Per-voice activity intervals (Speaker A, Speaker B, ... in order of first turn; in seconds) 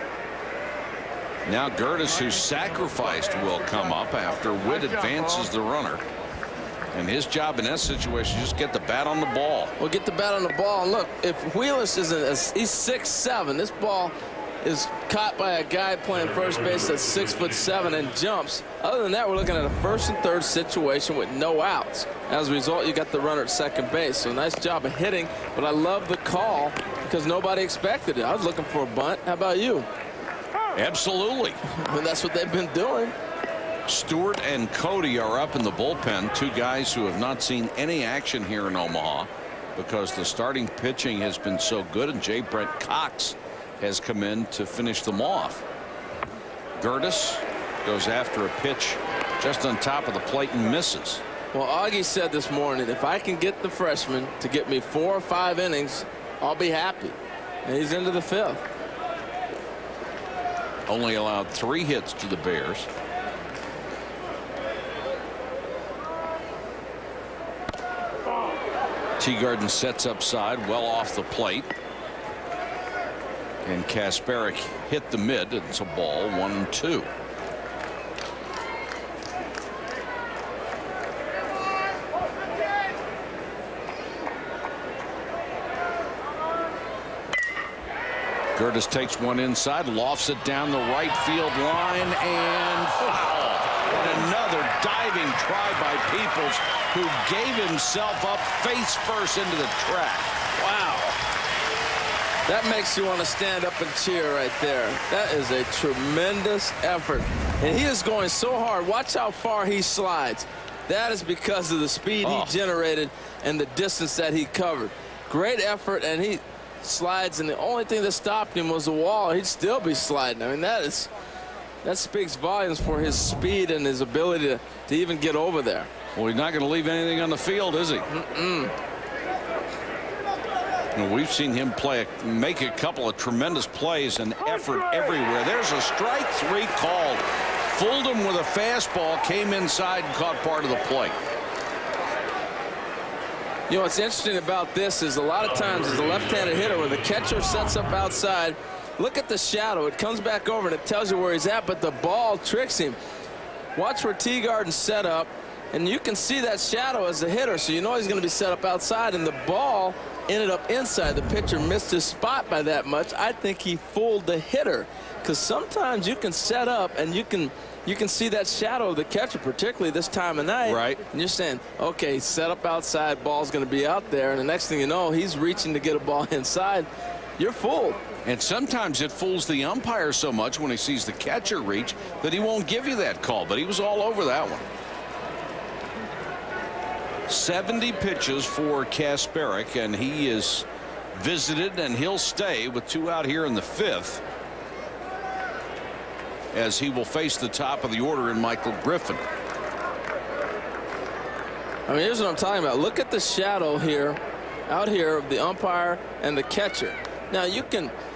Speaker A: 1.5-6.0, 6.9-9.7, 30.7-31.6, 33.9-45.6, 46.8-51.2, 60.9-62.9, 69.2-71.7, 73.7-77.1, 88.5-100.5, 112.2-112.5, 126.1-128.1, 130.9-141.2, 170.6-171.0, 178.2-184.7, 187.3-194.2, 196.5-199.2
Speaker B: 9.8-29.9, 31.6-33.1, 51.5-58.6, 100.6-101.2, 102.5-121.1, 121.8-125.9, 128.1-128.7, 143.7-153.0, 153.8-178.0, 201.9-207.9